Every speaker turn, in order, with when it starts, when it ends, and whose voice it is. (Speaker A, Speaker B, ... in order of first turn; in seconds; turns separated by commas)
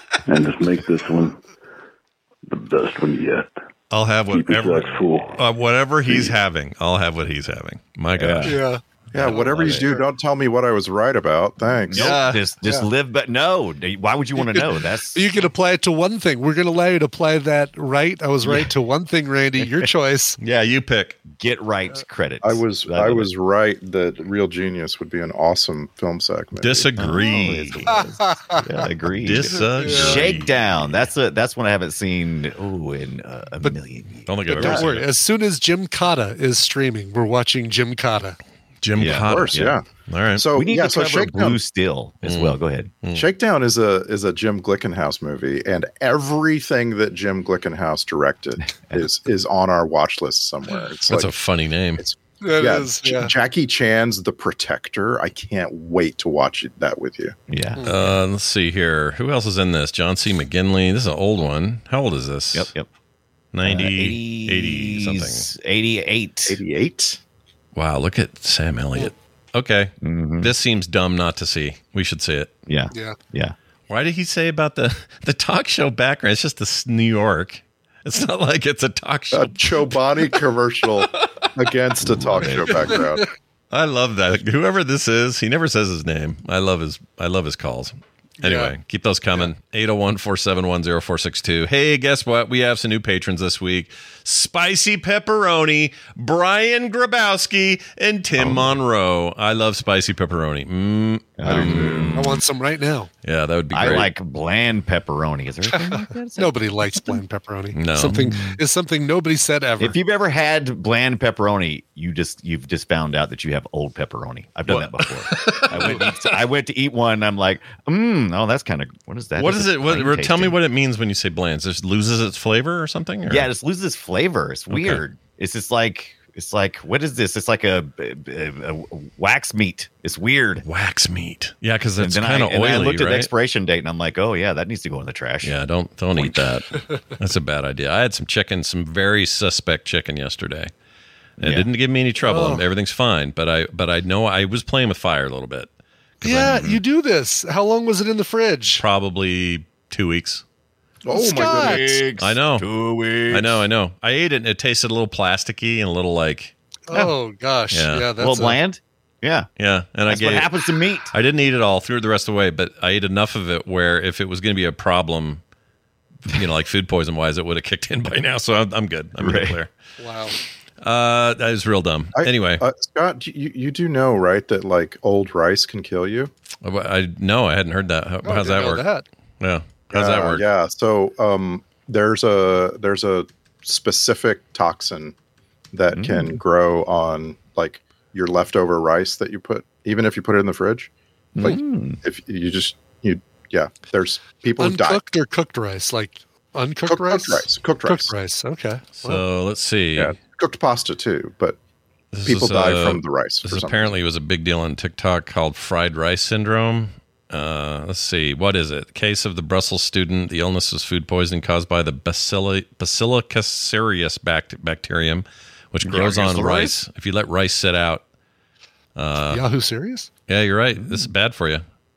Speaker A: 0.2-1.4, Speaker A: 2.5-3.5, Speaker B: 3.9-8.6, Speaker A: 4.3-5.4, Speaker A: 6.1-6.3, Speaker C: 8.2-8.6, Speaker D: 8.4-8.8, Speaker E: 9.1-12.2, Speaker B: 9.2-9.8, Speaker C: 9.3-9.9, Speaker D: 9.7-10.0, Speaker C: 11.9-15.3, Speaker B: 11.9-12.4, Speaker D: 14.4-20.4, Speaker B: 20.4-21.2, Speaker C: 21.3-23.3, Speaker E: 22.4-27.2, Speaker B: 26.6-28.0, Speaker C: 27.0-34.9, Speaker D: 27.9-28.6, Speaker B: 29.1-30.8, Speaker D: 29.7-30.2, Speaker B: 34.2-35.1, Speaker D: 34.5-38.4, Speaker B: 38.8-40.4, Speaker C: 39.0-39.8, Speaker E: 39.2-41.6, Speaker C: 40.5-42.9, Speaker B: 42.2-43.3, Speaker E: 43.1-51.3, Speaker C: 48.6-49.1, Speaker B: 51.1-52.0, Speaker E: 52.0-57.3, Speaker D: 52.4-53.3, Speaker C: 57.5-58.2, Speaker B: 57.8-62.7, Speaker C: 62.5-62.9, Speaker B: 63.5-65.5, Speaker C: 63.6-66.6, Speaker E: 66.5-67.2, Speaker B: 67.7-72.5, Speaker C: 70.0-70.5, Speaker C: 72.7-73.5, Speaker D: 72.9-73.2, Speaker B: 73.9-80.4, Speaker E: 79.3-83.3, Speaker B: 81.0-81.3, Speaker C: 82.1-83.0, Speaker B: 83.7-102.1, Speaker D: 88.4-88.7, Speaker C: 98.4-98.8, Speaker C: 101.4-102.4, Speaker E: 101.4-102.2, Speaker D: 102.1-103.1, Speaker B: 103.2-104.1, Speaker C: 103.7-106.5, Speaker D: 105.7-110.0, Speaker B: 107.7-108.2, Speaker C: 108.1-108.6, Speaker C: 109.8-120.6, Speaker B: 114.7-116.2, Speaker B: 119.4-123.5, Speaker C: 123.3-130.6, Speaker B: 124.7-125.0, Speaker B: 130.6-133.3, Speaker C: 132.0-135.5, Speaker B: 135.4-140.7, Speaker C: 136.2-136.5, Speaker B: 141.4-146.7, Speaker C: 141.4-141.7, Speaker D: 142.2-142.6, Speaker D: 146.2-148.8, Speaker C: 146.3-146.8, Speaker B: 148.8-150.4, Speaker E: 151.1-152.0, Speaker D: 151.1-152.0, Speaker C: 151.1-153.6, Speaker B: 152.2-152.7, Speaker B: 153.3-156.5, Speaker D: 156.9-158.6, Speaker B: 157.7-158.1, Speaker C: 158.2-159.5, Speaker B: 159.6-160.5, Speaker C: 160.1-161.1, Speaker B: 161.1-165.4, Speaker B: 166.2-169.7, Speaker C: 169.2-169.6, Speaker D: 170.0-170.3, Speaker B: 170.8-172.6, Speaker E: 172.2-176.3, Speaker B: 176.6-178.8, Speaker E: 178.3-178.6, Speaker D: 178.3-179.0, Speaker B: 179.4-180.4, Speaker E: 179.9-185.1, Speaker E: 185.7-190.9, Speaker C: 185.9-186.4, Speaker C: 191.3-192.0, Speaker E: 191.4-195.0, Speaker D: 194.6-199.2, Speaker E: 196.9-198.1, Speaker B: 199.0-200.1, Speaker E: 199.9-201.6, Speaker B: 202.1-218.0, Speaker E: 202.2-203.9, Speaker C: 215.8-216.7, Speaker B: 218.9-219.4, Speaker D: 219.3-220.1, Speaker B: 220.3-221.6, Speaker C: 220.8-221.1